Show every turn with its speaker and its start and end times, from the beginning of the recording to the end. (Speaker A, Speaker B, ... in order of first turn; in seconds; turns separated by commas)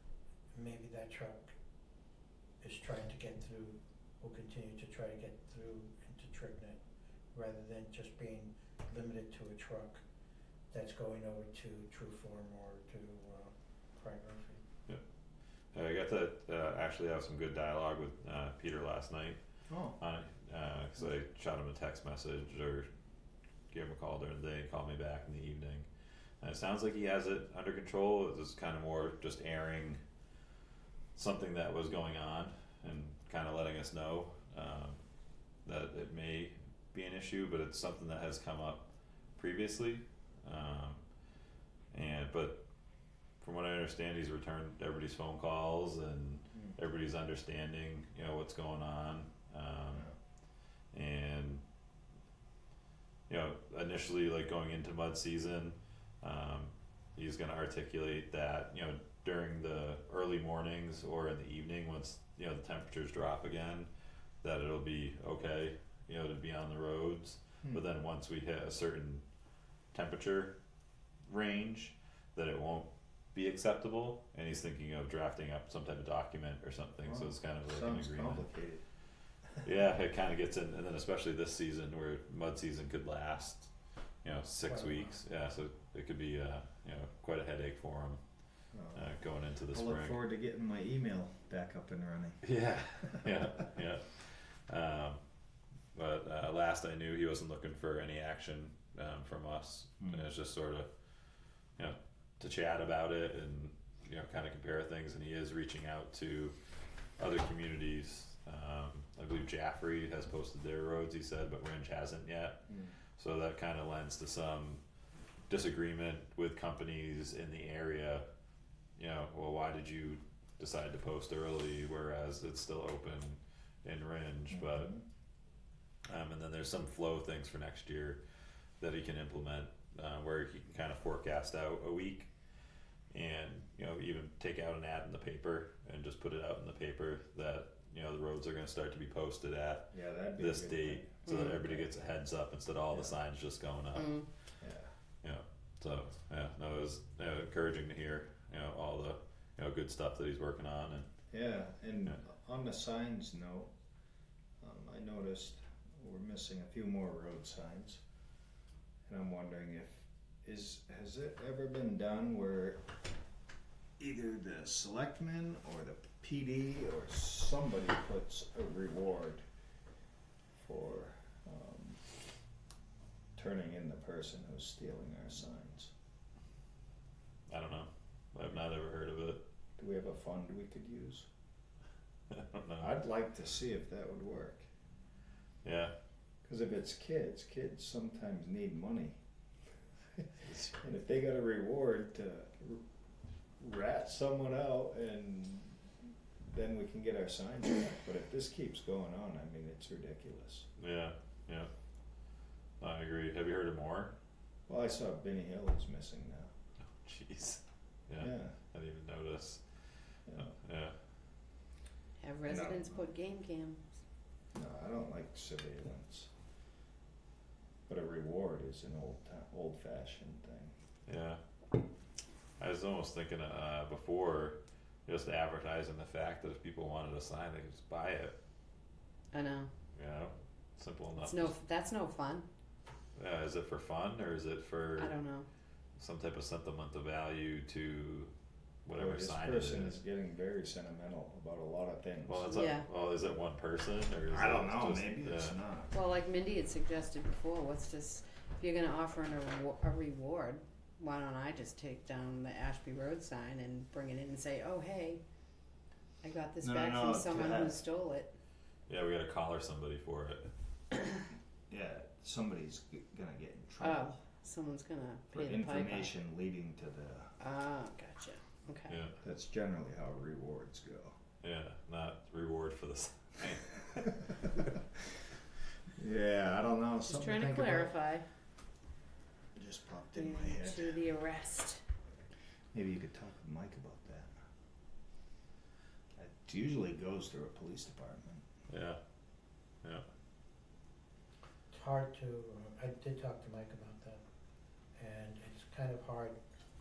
Speaker A: 0.5-1.6, Speaker A: 2.6-6.8, Speaker A: 7.3-10.0, Speaker A: 10.7-14.6, Speaker B: 15.7-19.4, Speaker C: 19.7-20.0, Speaker B: 20.0-22.9, Speaker B: 23.7-25.9, Speaker B: 26.4-30.0, Speaker B: 31.1-35.0, Speaker B: 35.6-41.0, Speaker B: 41.9-42.6, Speaker B: 43.4-50.1, Speaker B: 50.9-51.6, Speaker B: 53.3-63.9, Speaker B: 64.4-69.2, Speaker B: 69.9-70.5, Speaker B: 71.3-78.5, Speaker C: 77.1-78.8, Speaker B: 79.6-83.7, Speaker B: 84.2-88.2, Speaker A: 84.7-85.2, Speaker C: 88.7-89.1, Speaker B: 89.0-90.2, Speaker C: 89.7-92.4, Speaker B: 92.4-95.2, Speaker B: 96.0-100.9, Speaker C: 100.0-100.3, Speaker B: 101.8-106.5, Speaker B: 107.2-112.6, Speaker C: 112.7-113.0, Speaker B: 113.2-114.8, Speaker B: 115.5-118.2, Speaker B: 119.0-124.9, Speaker C: 124.5-125.0, Speaker B: 126.1-128.2, Speaker B: 128.8-132.3, Speaker B: 133.1-144.2, Speaker C: 139.9-141.9, Speaker D: 141.3-141.6, Speaker D: 144.0-144.3, Speaker C: 144.6-144.9, Speaker B: 145.2-151.1, Speaker C: 151.3-153.7, Speaker C: 154.6-158.0, Speaker C: 159.1-162.8, Speaker C: 164.0-169.4, Speaker C: 170.6-172.0, Speaker C: 173.4-175.9, Speaker B: 177.5-179.4, Speaker C: 179.8-181.3, Speaker B: 182.3-183.0, Speaker C: 182.8-184.7, Speaker B: 185.6-185.9, Speaker C: 186.4-189.2, Speaker C: 190.2-192.8, Speaker B: 190.4-190.8, Speaker C: 193.6-195.8, Speaker C: 196.4-200.7, Speaker B: 200.8-201.7, Speaker B: 202.8-204.1, Speaker C: 204.7-206.5, Speaker B: 206.8-209.6, Speaker C: 208.2-208.6, Speaker B: 210.3-210.9, Speaker D: 212.2-213.9, Speaker C: 212.5-213.1, Speaker C: 214.5-216.3, Speaker C: 217.9-220.7, Speaker B: 221.1-221.4, Speaker B: 222.6-228.3, Speaker D: 229.3-229.7, Speaker B: 229.9-231.5, Speaker D: 231.2-232.5, Speaker B: 233.2-235.2, Speaker D: 235.0-235.5, Speaker B: 236.0-238.3, Speaker B: 238.8-240.0, Speaker C: 238.9-242.7, Speaker B: 242.3-245.6, Speaker D: 242.5-242.9, Speaker C: 244.3-245.9, Speaker D: 245.9-255.2, Speaker D: 256.2-258.3, Speaker C: 256.6-257.8, Speaker B: 258.9-260.5, Speaker C: 261.7-264.2, Speaker D: 263.8-266.1, Speaker C: 265.3-267.4, Speaker D: 267.4-269.0, Speaker B: 268.9-269.1, Speaker C: 269.2-271.2, Speaker B: 271.4-274.7, Speaker C: 276.0-278.0, Speaker D: 277.1-278.2, Speaker C: 279.5-281.0, Speaker D: 280.2-281.8, Speaker C: 282.7-284.3, Speaker C: 286.2-288.4, Speaker B: 288.7-289.0, Speaker A: 291.7-294.2, Speaker A: 295.0-296.4